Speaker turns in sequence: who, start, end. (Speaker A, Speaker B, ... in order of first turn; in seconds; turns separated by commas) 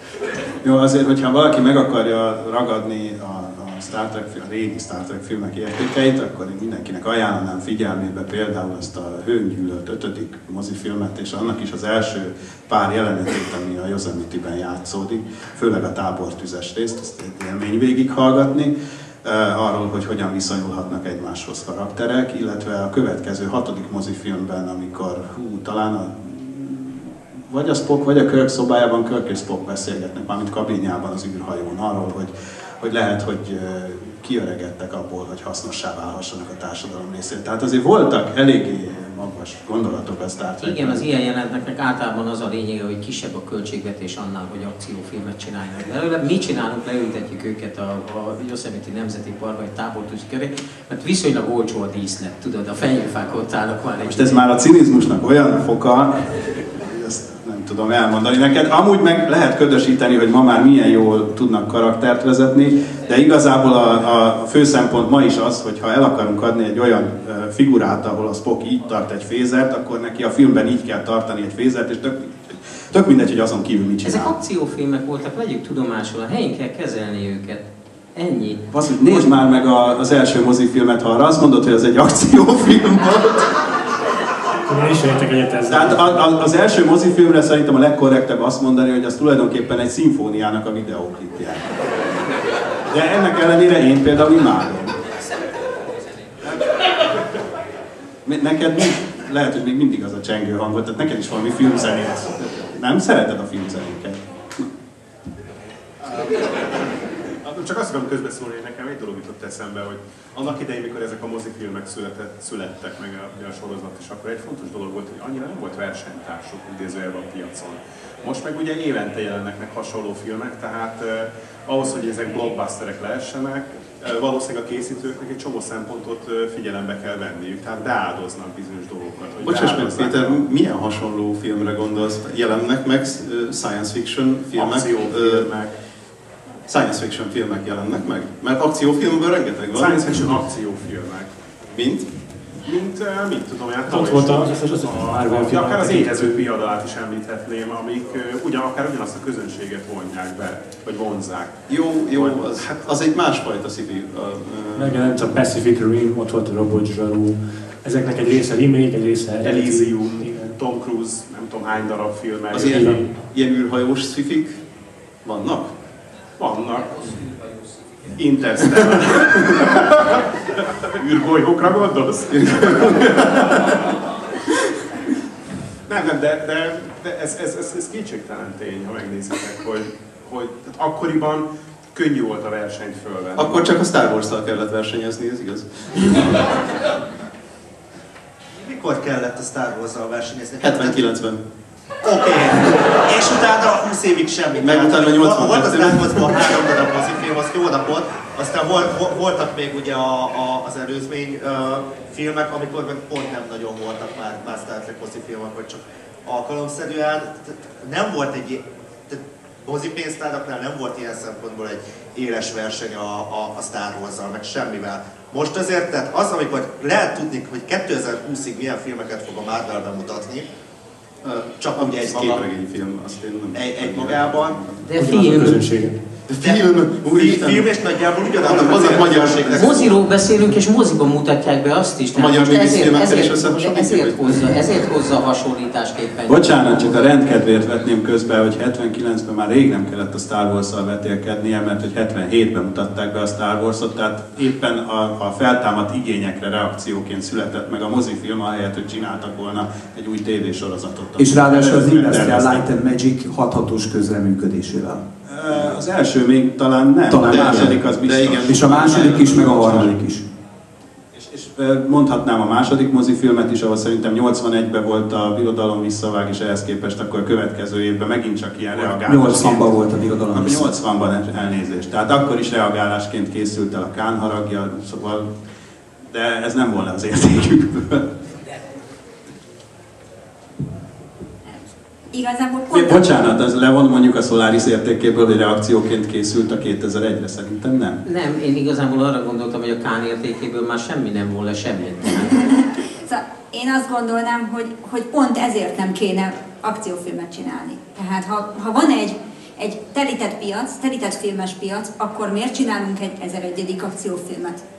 Speaker A: 0.6-41.0, Speaker B: 40.6-54.5, Speaker A: 54.0-74.4, Speaker B: 74.0-79.2, Speaker A: 78.7-83.6, Speaker C: 84.7-86.2, Speaker A: 85.7-91.8, Speaker A: 92.9-95.0, Speaker B: 95.4-95.8, Speaker A: 98.2-104.6, Speaker D: 106.1-106.9, Speaker D: 107.4-130.4, Speaker E: 129.4-135.5, Speaker D: 134.5-135.7, Speaker E: 136.7-140.4, Speaker D: 139.7-141.3, Speaker E: 141.7-142.1, Speaker D: 142.6-152.6, Speaker C: 143.9-146.4, Speaker E: 151.7-155.4, Speaker C: 154.8-160.6, Speaker D: 159.4-162.9, Speaker E: 162.5-164.6, Speaker C: 162.6-163.1, Speaker E: 165.2-165.7, Speaker D: 166.4-167.1, Speaker D: 168.2-173.8, Speaker E: 172.3-173.7, Speaker D: 175.9-183.7, Speaker E: 183.4-186.5, Speaker F: 188.6-191.0, Speaker E: 190.6-191.4, Speaker F: 192.0-220.5, Speaker E: 194.6-196.3, Speaker E: 221.2-224.8, Speaker F: 221.6-222.4, Speaker F: 223.5-224.6, Speaker B: 224.8-225.6, Speaker C: 224.9-226.0, Speaker E: 226.3-227.7, Speaker F: 226.4-229.9, Speaker E: 228.4-229.9, Speaker B: 229.6-237.1, Speaker E: 232.2-234.5, Speaker A: 236.3-252.7, Speaker G: 251.2-255.8, Speaker A: 255.3-259.9, Speaker G: 257.1-260.3, Speaker E: 257.2-259.9, Speaker A: 261.1-275.3, Speaker G: 268.8-270.7, Speaker A: 276.0-278.1, Speaker H: 282.1-283.3, Speaker A: 282.7-288.0, Speaker B: 288.1-292.4, Speaker H: 292.2-304.6